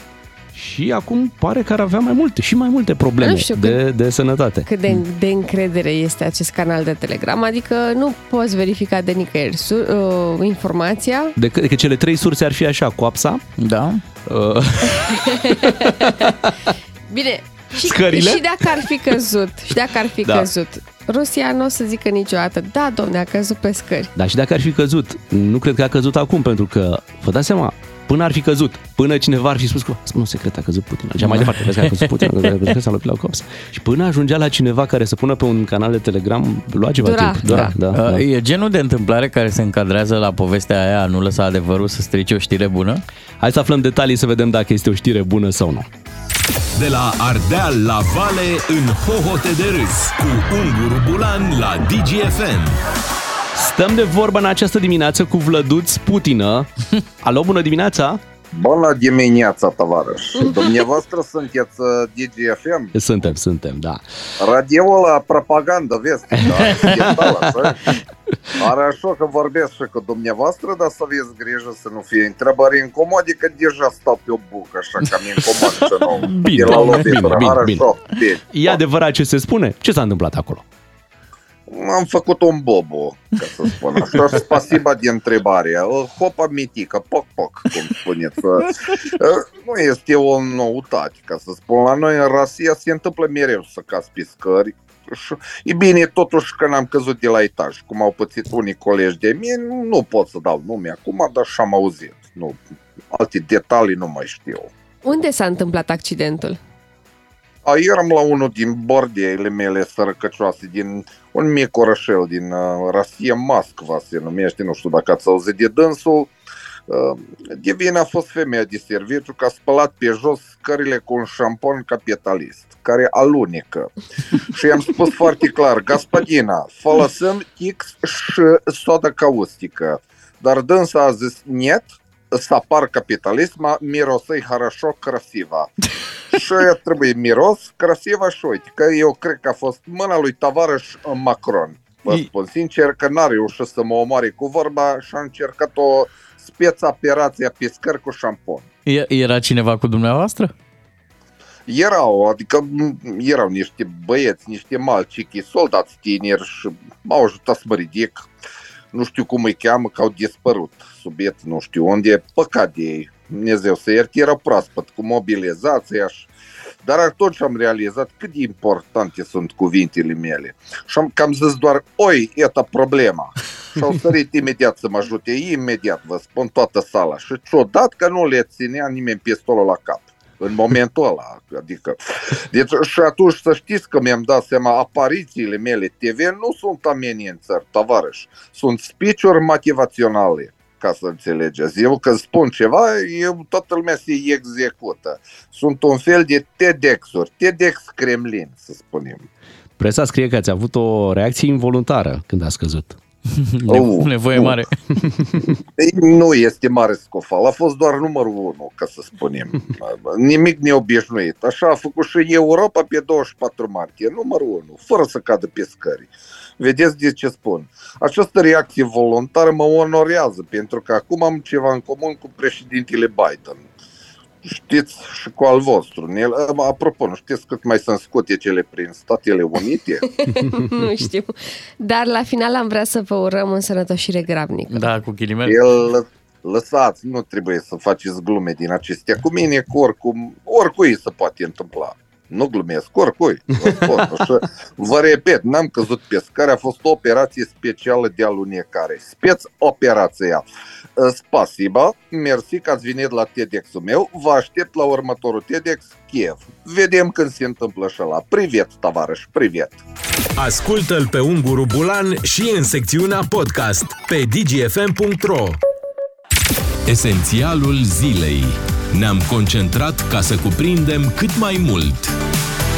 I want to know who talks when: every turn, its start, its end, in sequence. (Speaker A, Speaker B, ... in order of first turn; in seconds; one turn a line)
Speaker A: 0.5-4.7
Speaker B: 3.2-3.8
Speaker B: 4.7-11.3
Speaker A: 11.3-13.4
Speaker C: 13.6-14.0
Speaker A: 14.2-16.7
Speaker B: 15.1-16.3
Speaker B: 17.1-24.1
Speaker A: 17.8-18.4
Speaker A: 24.1-38.2
Speaker C: 31.2-32.5
Speaker B: 37.0-37.7
Speaker C: 37.5-43.0
Speaker A: 43.4-45.9
Speaker D: 46.7-52.8
Speaker A: 53.5-56.7
Speaker A: 57.2-58.2
Speaker E: 58.5-62.9
Speaker A: 62.9-64.0
Speaker E: 64.4-68.0
Speaker A: 66.3-67.7
Speaker E: 68.6-78.5
Speaker A: 76.2-77.9
Speaker A: 78.5-80.6
Speaker E: 81.7-102.6
Speaker E: 103.1-104.7
Speaker B: 105.0-106.6
Speaker E: 107.6-116.3
Speaker E: 116.9-123.9
Speaker E: 124.4-135.7
Speaker E: 136.3-148.6
Speaker C: 148.8-150.5
Speaker E: 151.7-158.3
Speaker E: 158.9-166.3
Speaker E: 166.8-199.2
Speaker A: 199.8-203.0
Speaker C: 203.3-204.7
Speaker E: 203.7-204.6
Speaker E: 205.8-216.1
Speaker E: 216.6-223.6
Speaker E: 224.4-230.1
Speaker B: 230.2-234.8
Speaker C: 234.7-235.6
Speaker E: 235.4-250.4
Speaker E: 251.0-259.8
Speaker D: 260.4-265.6
Speaker D: 266.9-272.1